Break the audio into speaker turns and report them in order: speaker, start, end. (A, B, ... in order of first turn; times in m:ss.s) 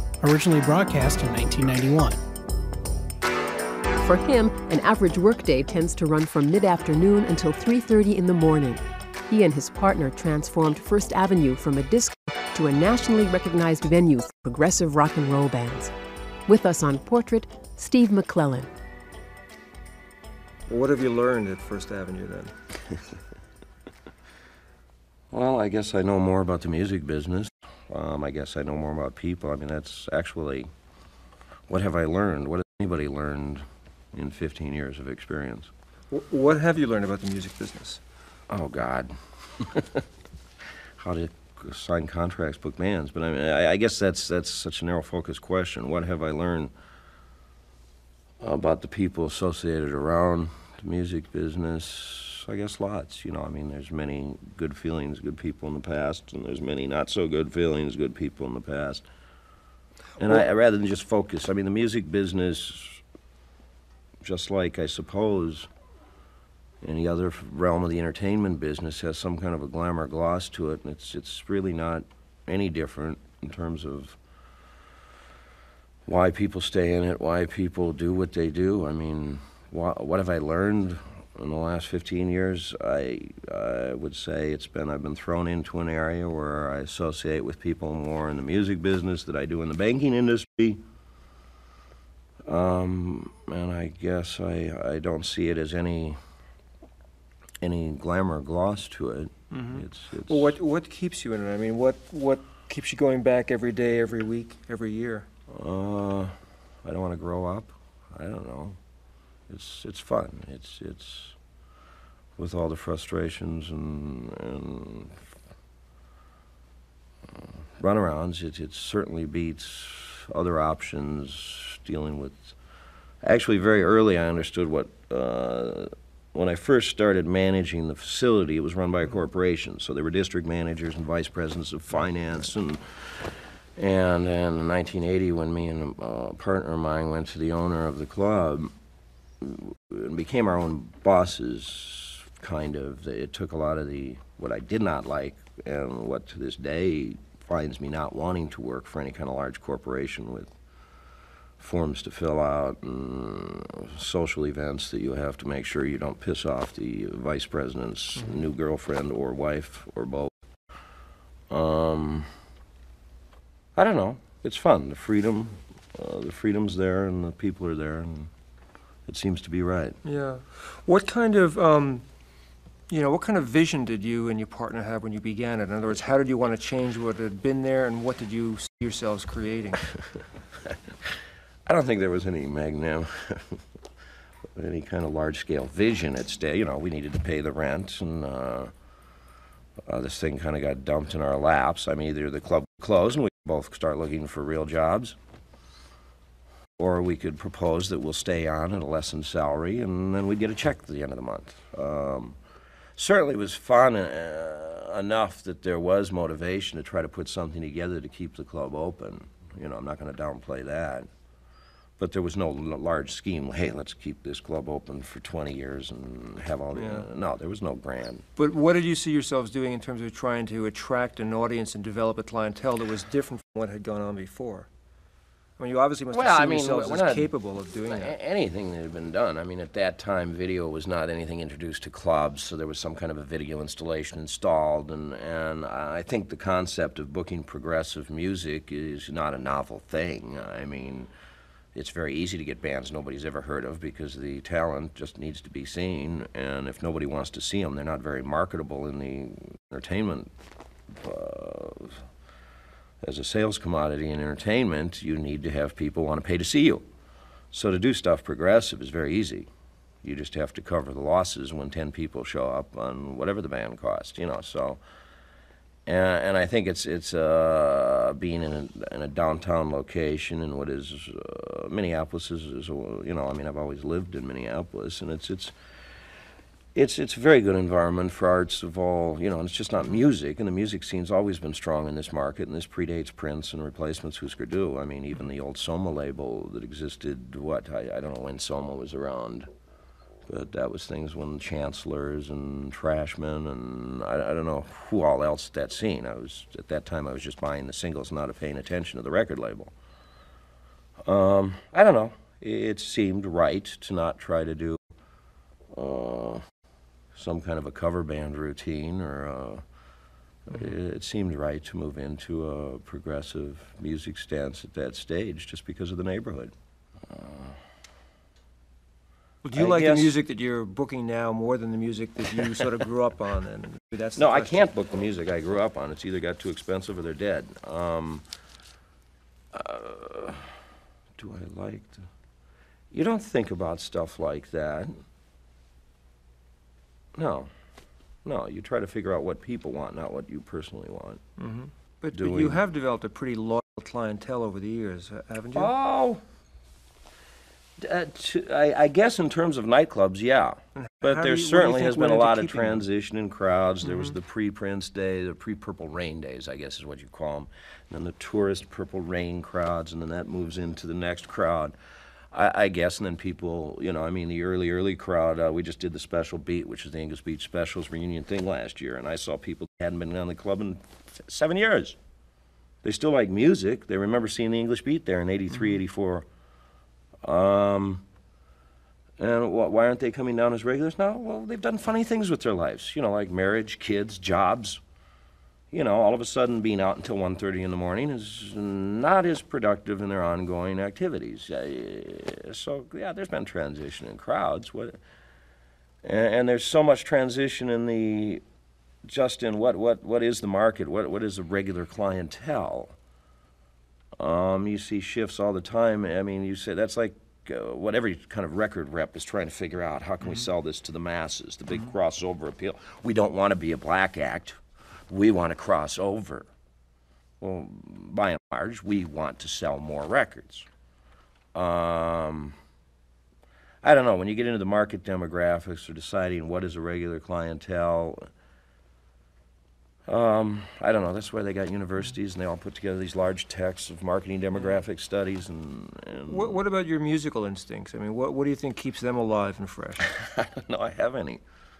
0:00.2-0:02.2 A
0:04.0-0:15.9 B
0:16.5-0:18.7 B
0:20.7-0:22.6 C
0:25.3-0:30.7 D
0:31.7-0:35.7 D
0:36.1-0:38.0 C
0:38.5-0:40.0 D
0:41.0-0:46.7 D
0:48.4-0:59.0 D
1:00.2-1:03.0 D
1:04.2-1:05.7 D
1:06.8-1:14.2 D
1:16.0-1:30.8 D
1:32.4-1:36.2 D
1:37.6-1:40.6 D
1:39.5-1:45.3 C
1:45.5-1:48.8 D
1:49.5-1:51.4 D
1:52.4-1:55.2 D
1:57.3-2:02.5 D
2:03.2-2:18.7 D
2:19.4-2:30.5 D
2:31.6-2:40.3 D
2:41.5-2:42.3 D
2:43.8-2:48.3 D
2:49.0-2:50.0 D
2:50.0-2:52.0 C
2:52.9-2:59.8 C
3:01.6-3:03.6 D
3:04.5-3:08.7 D
3:09.8-3:15.2 D
3:16.8-3:22.4 D
3:23.0-3:31.1 D
3:32.0-3:38.2 D
3:36.7-3:37.1 C
3:38.4-3:44.7 C
3:45.6-3:48.2 C
3:46.1-3:47.3 D
3:47.8-4:01.1 D
4:01.7-4:10.3 D
4:10.9-4:12.1 D
4:13.0-4:16.8 D
4:17.5-4:19.5 D
4:20.0-4:24.8 D
4:25.8-4:35.5 D
4:36.7-4:49.5 D
4:50.3-4:59.7 D
5:01.0-5:04.8 D
5:05.7-5:06.4 D
5:07.1-5:09.6 D
5:10.5-5:16.5 D
5:17.1-5:17.6 D
5:19.4-5:24.6 C
5:19.5-5:20.1 D
5:24.2-5:28.2 D
5:29.5-5:30.5 D
5:31.2-5:32.1 D
5:32.9-5:35.0 D
5:37.1-5:37.5 D
5:38.2-5:41.2 D
5:41.4-5:45.7 C
5:42.1-5:42.6 D
5:45.5-5:46.2 D
5:47.8-6:01.7 D
5:50.8-5:52.8 C
6:02.3-6:12.0 D
6:12.8-6:16.2 D
6:17.2-6:18.0 D
6:19.2-6:24.8 D
6:25.7-6:35.0 D
6:36.0-6:38.4 D
6:39.0-6:42.9 D
6:44.2-6:54.6 D
6:55.1-6:56.5 D
6:57.4-7:00.7 D
7:01.5-7:02.6 D
7:03.8-7:08.3 D
7:10.1-7:16.6 D
7:16.3-7:20.1 C
7:20.0-7:21.4 D